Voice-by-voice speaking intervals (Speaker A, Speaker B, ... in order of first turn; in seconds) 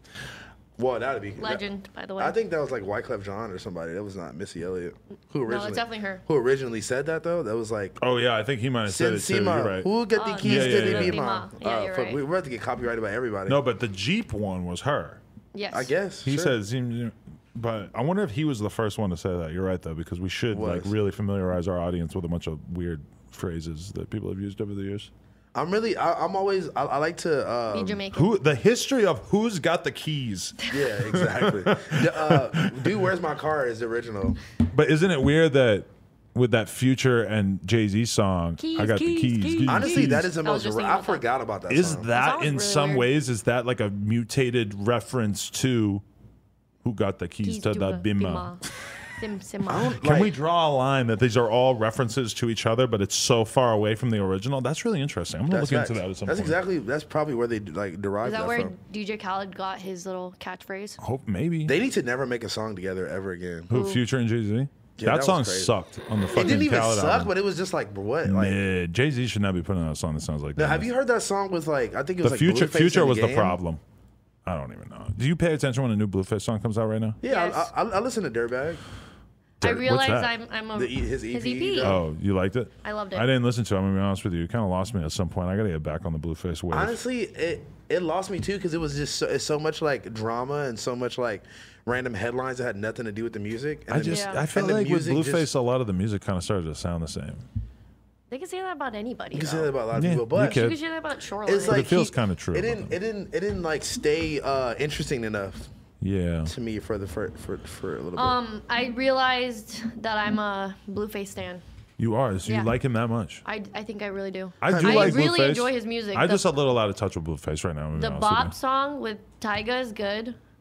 Speaker A: 0.8-1.6, 2.2-8.0, 8.8-13.6, 15.7-16.5, 20.5-20.9, 25.5-28.1, 30.7-34.4, 39.6-42.1, 49.7-50.3, 55.5-58.7, 61.7-63.7, 65.0-65.7, 66.3-68.6, 70.5-73.6, 77.2-78.8, 80.7-82.0, 86.7-95.5, 99.3-100.7, 101.5-105.7, 106.5-108.4, 114.7-115.3
Speaker B: 1.4-2.4, 5.5-6.2, 10.1-12.2, 15.5-15.9, 27.7-28.4, 38.6-41.2, 42.1-43.1, 47.4-48.6, 49.2-50.0, 58.2-61.0, 63.7-64.0, 77.2-77.7, 79.6-82.0, 82.8-83.3, 94.1-94.5, 98.3-99.7, 100.4-101.9, 108.2-111.6, 112.5-112.7, 113.4-116.5, 117.9-120.4
Speaker C: 8.0-9.9, 10.4-11.2, 13.5-15.2, 16.2-25.1, 28.1-33.0, 34.7-40.3, 41.7-46.0, 46.8-48.5, 50.0-56.6, 61.0-61.8, 63.7-67.3, 68.2-70.9, 72.2-73.8, 74.5-77.2, 79.6-80.3, 81.8-87.0, 93.9-97.4, 99.9-100.8, 101.7-102.9, 106.0-106.5, 112.0-113.4, 114.6-118.5